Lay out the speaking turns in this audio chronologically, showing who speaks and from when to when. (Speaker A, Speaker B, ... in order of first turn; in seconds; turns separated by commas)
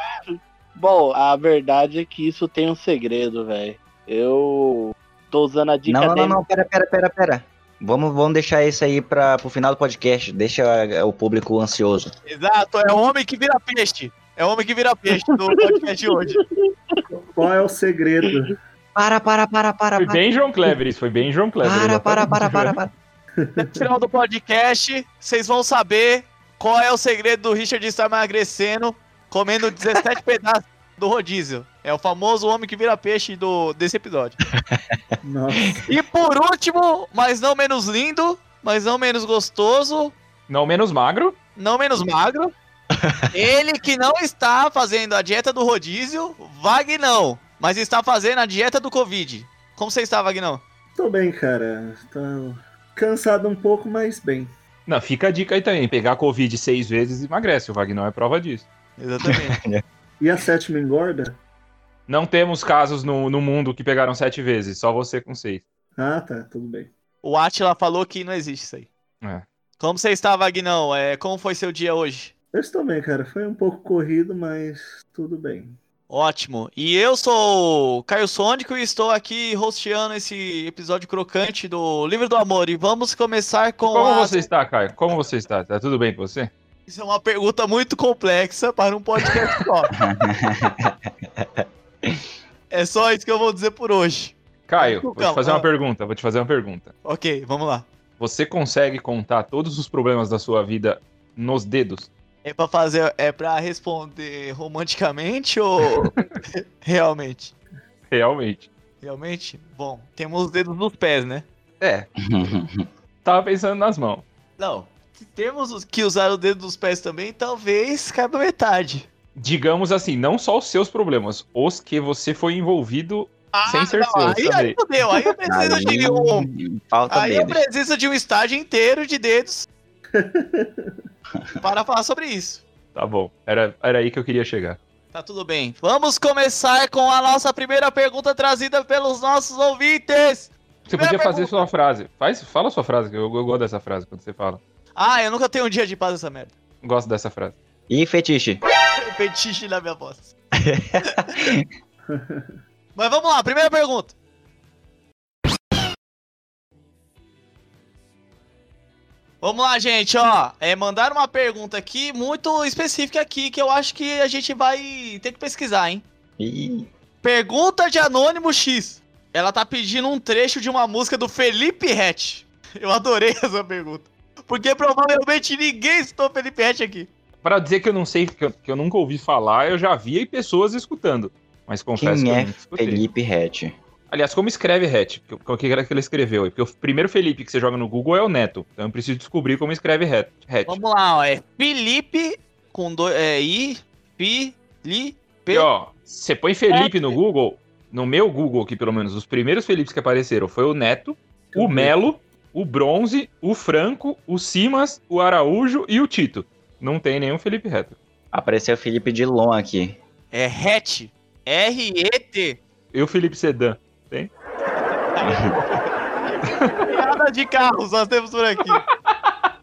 Speaker A: 0.3-6.4, Speaker B: 5.9-12.1, Speaker C: 12.3-16.4, Speaker A: 15.6-16.4, Speaker D: 17.1-18.6, Speaker B: 18.9-20.2, Speaker E: 19.9-22.8, Speaker B: 21.6-22.9, Speaker D: 23.4-23.9, Speaker C: 23.6-34.4, Speaker D: 35.2-35.9, Speaker C: 35.9-40.2, Speaker E: 40.5-41.4, Speaker C: 41.6-42.5, Speaker C: 43.3-50.6, Speaker D: 51.0-54.5, Speaker E: 54.9-58.7, Speaker C: 59.0-59.6, Speaker B: 59.3-59.8, Speaker D: 60.2-61.4, Speaker E: 62.1-65.6, Speaker D: 66.0-66.9, Speaker C: 67.2-68.9, Speaker C: 69.8-72.3, Speaker D: 72.5-75.8, Speaker C: 76.1-84.5, Speaker E: 83.9-86.5, Speaker C: 86.9-89.9, Speaker B: 89.9-92.2, Speaker C: 92.7-95.7, Speaker E: 94.7-96.9, Speaker C: 97.0-97.9, Speaker E: 98.2-102.1, Speaker C: 102.4-107.5, Speaker E: 105.8-106.3, Speaker E: 108.1-108.7, Speaker C: 109.0-111.5, Speaker E: 111.8-112.1, Speaker B: 112.2-112.9, Speaker E: 113.2-114.2, Speaker C: 114.6-119.1, Speaker E: 119.4-124.8, Speaker C: 123.5-126.5, Speaker B: 125.5-127.6, Speaker C: 127.1-129.7, Speaker D: 130.1-131.0, Speaker C: 131.6-132.7, Speaker E: 132.9-134.8, Speaker C: 135.1-141.7, Speaker E: 140.9-144.6, Speaker C: 145.0-146.6, Speaker E: 146.8-147.6, Speaker B: 147.9-148.6, Speaker C: 149.0-150.3, Speaker B: 150.6-151.7, Speaker D: 152.1-152.6, Speaker C: 153.0-154.2, Speaker C: 159.4-166.0, Speaker B: 166.4-166.9, Speaker C: 167.2-177.1, Speaker E: 177.4-183.0, Speaker B: 182.0-183.7, Speaker E: 184.1-190.8, Speaker C: 190.7-195.7, Speaker E: 195.5-208.0, Speaker C: 196.7-197.2, Speaker D: 201.5-201.9, Speaker B: 208.3-210.0, Speaker C: 210.3-212.6, Speaker E: 212.9-214.3, Speaker C: 215.1-218.8, Speaker B: 215.2-215.6, Speaker E: 216.4-217.0, Speaker E: 218.8-219.3